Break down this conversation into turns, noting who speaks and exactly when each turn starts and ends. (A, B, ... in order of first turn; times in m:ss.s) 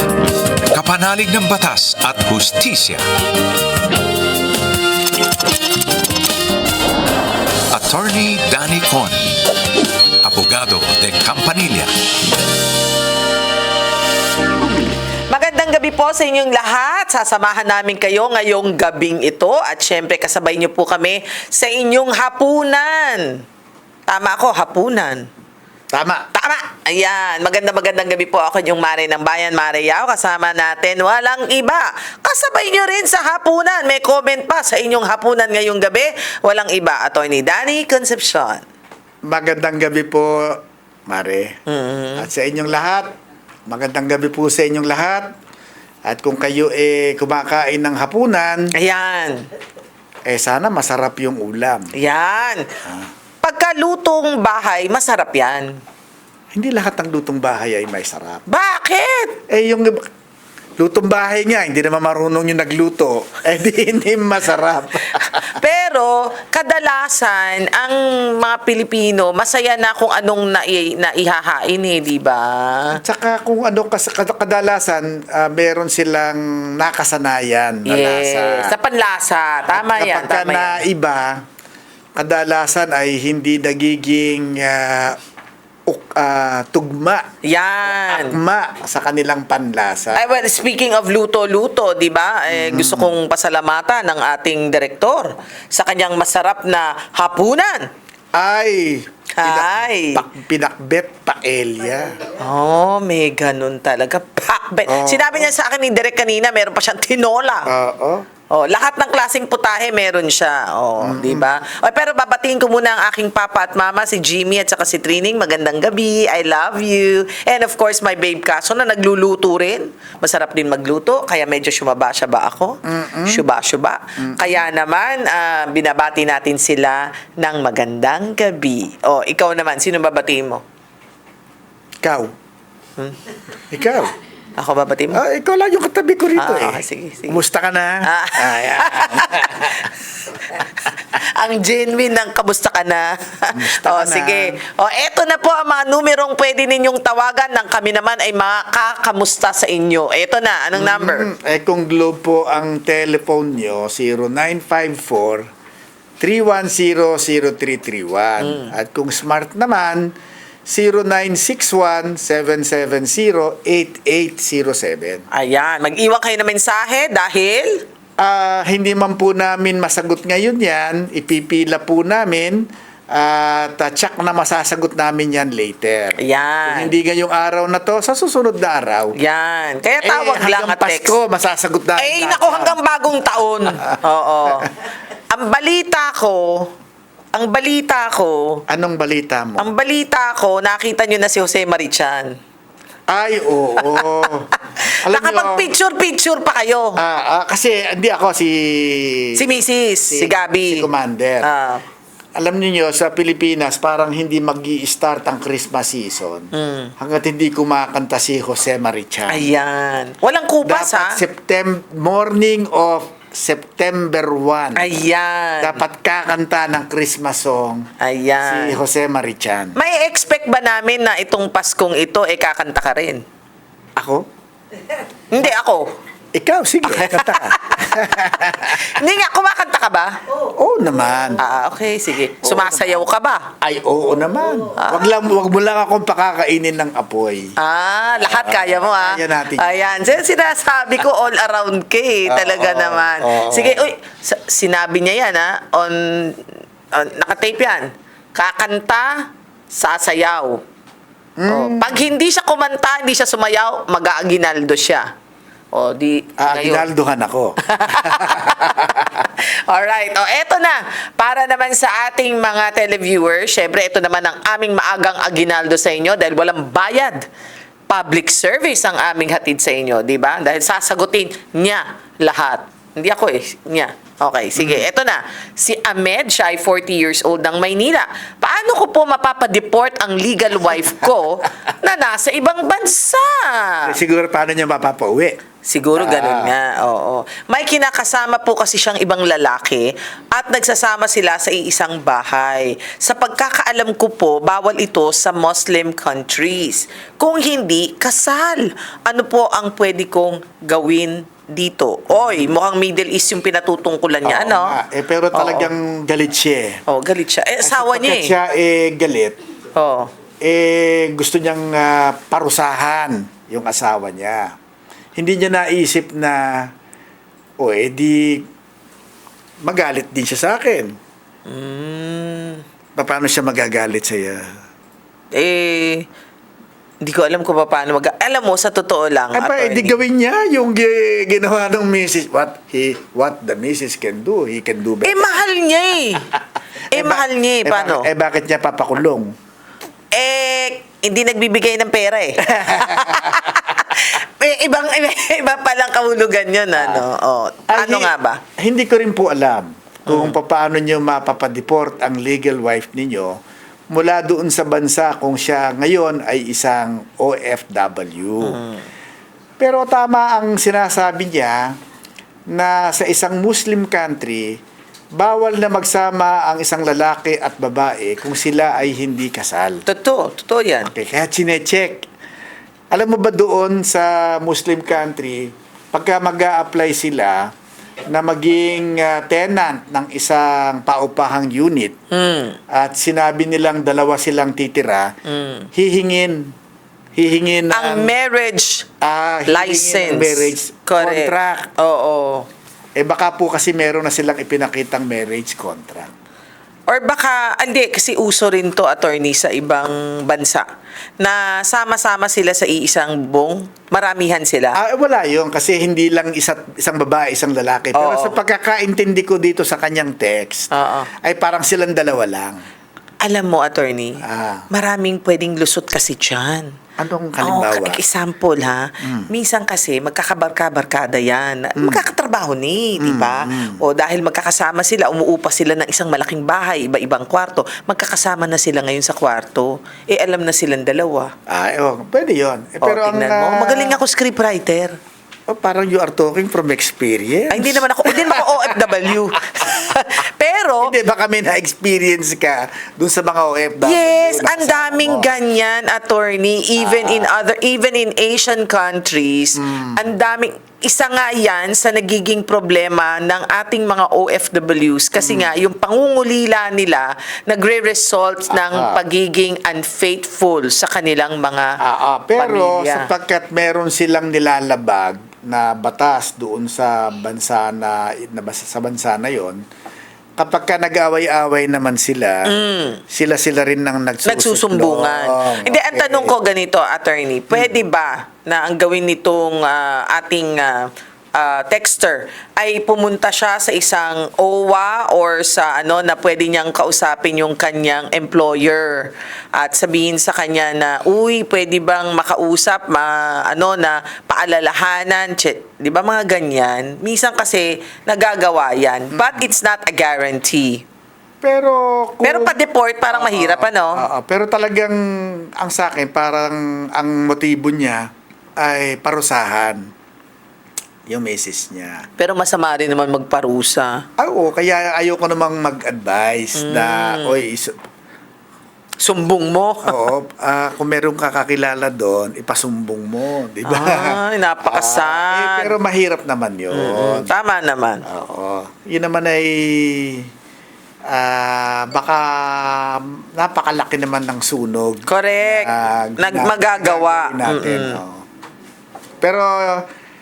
0:00.7-0:03.1 A
0:07.7-0:09.4 A
0:10.2-0:11.9 A
0:15.3-0:23.4 B
0:24.1-0:25.3 B
0:25.9-0:26.3 C
0:26.3-0:38.6 B
0:39.3-0:41.6 C
0:41.7-0:42.3 B
0:42.2-0:43.1 C
0:43.7-0:45.3 C
0:46.0-0:48.7 C
0:48.8-0:49.5 B
0:50.3-0:51.9 C
0:51.9-0:52.7 B
0:53.4-0:55.8 B
0:56.5-0:58.4 C
0:58.5-0:59.4 B
0:59.5-1:00.1 C
1:00.8-1:05.4 C
1:05.2-1:13.0 B
1:13.0-1:18.7 C
1:17.9-1:20.8 B
1:19.7-1:21.4 C
1:22.2-1:25.2 C
1:25.9-1:27.3 C
1:27.4-1:28.4 B
1:27.8-1:30.3 C
1:30.1-1:37.9 B
1:32.5-1:33.1 C
1:38.4-1:42.2 C
1:39.4-1:40.2 B
1:42.3-1:47.7 B
1:44.9-1:45.5 C
1:47.7-1:48.3 C
1:48.5-2:10.6 B
1:51.0-1:51.5 C
2:02.8-2:03.4 C
2:04.2-2:04.6 C
2:12.0-2:12.3 C
2:13.7-2:14.1 C
2:14.6-2:15.2 B
2:15.1-2:19.9 C
2:16.4-2:17.4 B
2:18.0-2:19.9 B
2:20.5-2:31.3 B
2:23.5-2:24.6 C
2:30.8-2:35.5 C
2:36.2-2:40.1 C
2:38.4-2:38.7 B
2:40.7-2:45.2 C
2:45.3-2:47.8 B
2:48.2-2:59.2 C
2:56.2-2:56.9 B
2:59.2-3:01.2 B
3:00.0-3:02.8 C
3:02.0-3:04.7 B
3:05.3-3:06.7 B
3:07.3-3:08.6 B
3:08.7-3:09.7 C
3:09.6-3:12.3 B
3:13.1-3:15.7 C
3:14.8-3:17.0 B
3:17.0-3:19.4 C
3:19.4-3:20.9 B
3:20.1-3:21.5 C
3:21.4-3:21.8 B
3:22.4-3:29.5 C
3:26.5-3:26.9 B
3:29.3-3:31.2 B
3:30.6-3:34.9 C
3:34.8-3:35.8 B
3:35.6-3:37.9 C
3:38.0-3:38.8 B
3:38.4-3:39.8 C
3:39.8-3:43.2 B
3:44.0-3:44.3 C
3:45.3-3:45.9 B
3:46.3-3:49.0 C
3:46.9-3:50.2 B
3:50.6-3:51.4 C
3:51.4-3:53.5 B
3:52.4-3:57.6 C
3:54.8-3:55.1 B
3:57.6-4:10.6 B
3:58.2-4:00.1 C
4:02.3-4:03.9 C
4:11.4-4:12.0 C
4:11.5-4:15.1 B
4:15.7-4:16.9 B
4:16.4-4:19.3 C
4:17.7-4:27.2 B
4:27.9-4:44.0 B
4:34.6-4:34.9 C
4:43.9-4:45.4 C
4:45.7-5:04.8 B
4:46.0-4:46.5 C
5:02.1-5:02.5 C
5:04.2-5:06.8 C
5:05.3-5:05.7 B
5:06.9-5:08.4 B
5:07.6-5:09.4 C
5:09.8-5:10.1 B
5:10.4-5:14.5 C
5:15.2-5:16.7 C
5:17.6-5:18.5 C
5:19.6-5:21.0 C
5:21.5-5:22.6 B
5:23.0-5:24.5 C
5:25.3-5:26.0 B
5:27.0-5:30.0 B
5:29.3-5:35.3 C
5:35.0-5:36.3 B
5:36.9-5:38.1 B
5:36.9-5:39.3 C
5:40.1-5:48.4 B
5:42.5-5:43.6 C
5:46.8-5:47.1 C
5:47.7-5:53.4 C
5:50.1-5:50.4 B
5:53.9-5:58.6 C
5:58.4-5:58.8 B
5:59.6-6:01.8 C
6:02.5-6:04.6 C
6:05.1-6:09.8 C
6:09.9-6:10.9 B
6:10.9-6:12.1 C
6:12.9-6:17.5 C
6:18.1-6:22.0 C
6:22.1-6:22.6 B
6:22.7-6:25.2 C
6:25.3-6:25.7 B
6:25.7-6:26.5 C
6:27.2-6:28.1 C
6:27.7-6:28.9 B
6:29.0-6:31.7 C
6:29.5-6:32.5 B
6:33.0-6:36.1 C
6:36.9-6:40.7 B
6:41.2-6:44.8 B
6:44.8-6:52.6 C
6:48.0-6:48.4 B
6:50.7-6:51.1 B
6:53.2-6:56.8 B
6:54.2-6:54.7 C
6:57.0-6:58.0 C
6:57.4-7:11.3 B
6:59.0-6:59.3 C
7:01.8-7:02.0 C
7:03.0-7:03.8 C
7:11.5-7:14.0 C
7:12.8-7:15.0 B
7:15.5-7:20.0 C
7:17.5-7:20.9 B
7:20.8-7:25.3 C
7:23.8-7:41.8 B
7:26.8-7:27.3 C
7:29.6-7:30.0 C
7:35.2-7:35.5 C
7:38.5-7:39.0 C
7:41.8-7:49.6 C
7:42.4-7:43.1 B
7:50.4-7:52.6 C
7:52.5-7:53.0 B
7:53.1-7:56.3 C
7:54.3-8:20.8 B
8:19.1-8:19.5 C
8:21.4-8:22.6 C
8:22.2-8:24.0 B
8:23.1-8:29.9 C
8:31.1-8:32.1 C
8:32.2-8:34.0 B
8:34.2-8:37.8 C
8:36.6-8:37.4 B
8:39.0-8:40.0 B
8:39.8-8:47.3 C
8:43.6-8:45.7 B
8:46.7-8:48.0 B
8:48.1-8:50.3 C
8:51.1-8:58.2 C
8:55.1-8:58.0 B
8:59.2-8:59.9 C